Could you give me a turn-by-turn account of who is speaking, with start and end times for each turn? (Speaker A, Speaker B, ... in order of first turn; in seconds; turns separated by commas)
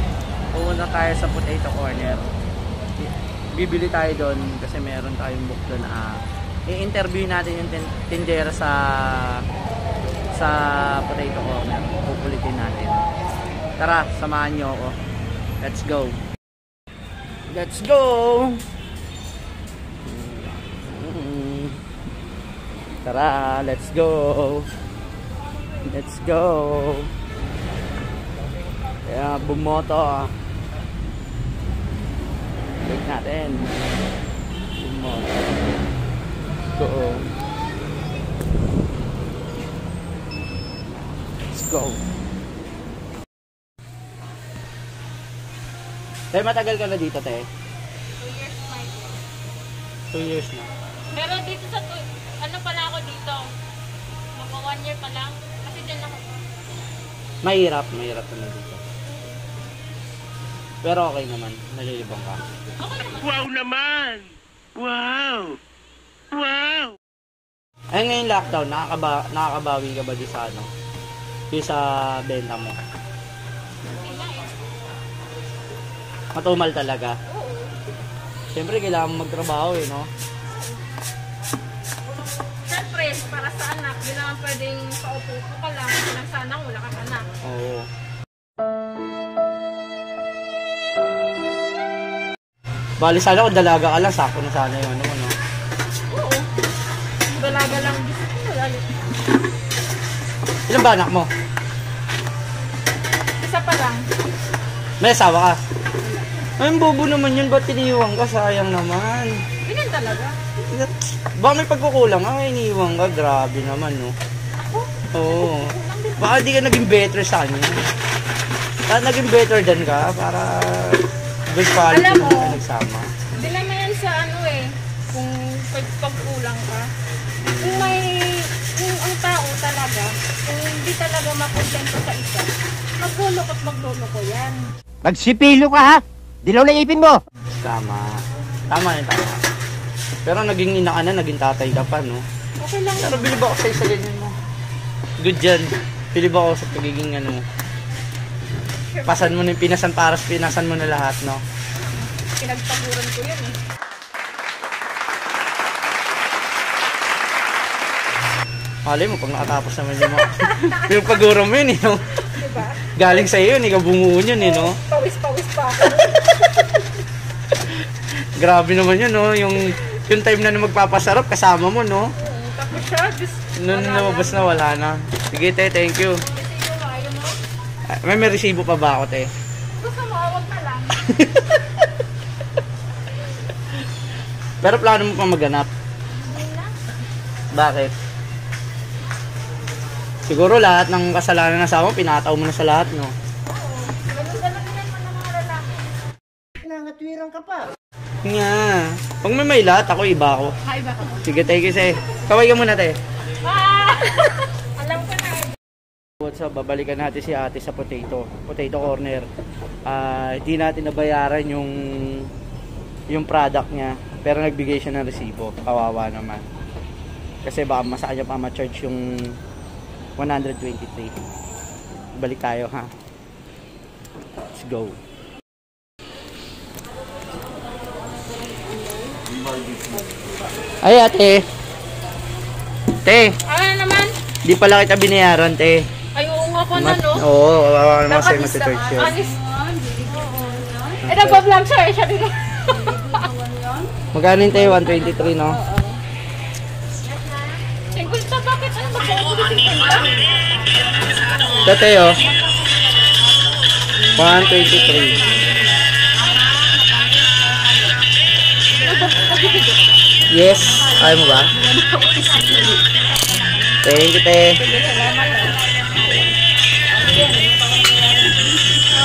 Speaker A: 0.5-2.2, Speaker A: 3.0-9.4, Speaker A: 10.3-13.0, Speaker A: 13.8-14.9, Speaker A: 15.6-16.2, Speaker A: 17.5-18.6, Speaker A: 20.0-21.8, Speaker A: 23.0-24.7, Speaker A: 25.9-27.1, Speaker A: 29.1-30.3, Speaker A: 32.8-33.8, Speaker A: 34.8-35.4, Speaker A: 36.8-37.2, Speaker A: 41.5-42.0, Speaker A: 46.3-47.5, Speaker B: 48.2-49.2, Speaker A: 50.1-50.7, Speaker B: 51.1-53.5, Speaker B: 54.3-56.3, Speaker A: 57.4-58.8, Speaker A: 60.8-62.4, Speaker B: 62.8-63.4, Speaker C: 63.3-65.6, Speaker C: 66.3-67.0, Speaker A: 67.9-70.7, Speaker A: 71.5-72.8, Speaker B: 73.9-74.6, Speaker A: 76.3-77.2, Speaker B: 77.3-77.7, Speaker A: 78.5-80.1, Speaker B: 82.7-87.3, Speaker A: 87.4-87.9, Speaker A: 93.0-95.3, Speaker B: 96.1-96.5, Speaker B: 97.3-99.0, Speaker A: 100.7-101.3, Speaker B: 103.4-104.0, Speaker A: 105.0-105.6, Speaker B: 106.0-106.3, Speaker A: 106.6-109.3, Speaker B: 109.6-110.4, Speaker A: 110.7-114.1, Speaker B: 114.6-116.4, Speaker A: 115.1-117.8, Speaker A: 118.9-123.1, Speaker B: 121.8-122.6, Speaker B: 123.3-126.9, Speaker A: 127.4-128.1, Speaker B: 127.6-134.6, Speaker D: 135.0-137.2, Speaker A: 137.6-139.4, Speaker A: 140.2-142.2, Speaker B: 142.6-143.4, Speaker A: 142.9-144.3, Speaker A: 145.2-147.4, Speaker B: 148.9-149.5, Speaker A: 149.1-151.4, Speaker B: 152.1-153.6, Speaker A: 158.8-162.1, Speaker B: 160.1-161.4, Speaker B: 162.2-163.2, Speaker A: 162.8-164.8, Speaker B: 164.4-166.8, Speaker A: 167.6-172.1, Speaker B: 172.2-174.7, Speaker A: 173.6-176.2, Speaker B: 176.2-177.4, Speaker A: 177.9-179.3, Speaker B: 179.8-181.2, Speaker A: 181.1-181.4, Speaker A: 184.6-185.7, Speaker B: 186.1-186.7, Speaker A: 187.5-187.9, Speaker A: 190.3-193.1, Speaker B: 193.5-195.8, Speaker D: 196.7-197.7, Speaker A: 198.2-200.6, Speaker B: 200.7-201.3, Speaker A: 201.2-202.9, Speaker B: 203.4-205.6, Speaker A: 206.2-209.3, Speaker A: 209.8-212.3, Speaker A: 213.1-216.4, Speaker A: 217.4-219.3, Speaker A: 220.2-221.1, Speaker A: 222.2-222.9, Speaker A: 224.5-225.0, Speaker A: 230.8-231.4, Speaker A: 233.0-233.3, Speaker B: 233.4-234.1, Speaker A: 234.4-235.8, Speaker B: 236.1-237.3, Speaker A: 236.7-239.2, Speaker B: 238.0-243.3, Speaker A: 241.0-241.4, Speaker A: 244.1-245.6, Speaker B: 244.7-245.9, Speaker B: 247.8-250.2, Speaker B: 251.2-252.3, Speaker A: 251.6-252.2, Speaker B: 254.1-255.6, Speaker A: 254.1-255.2, Speaker B: 256.1-257.3, Speaker B: 258.8-260.0, Speaker A: 260.3-261.5, Speaker B: 260.8-262.9, Speaker A: 263.8-264.6, Speaker B: 264.6-265.6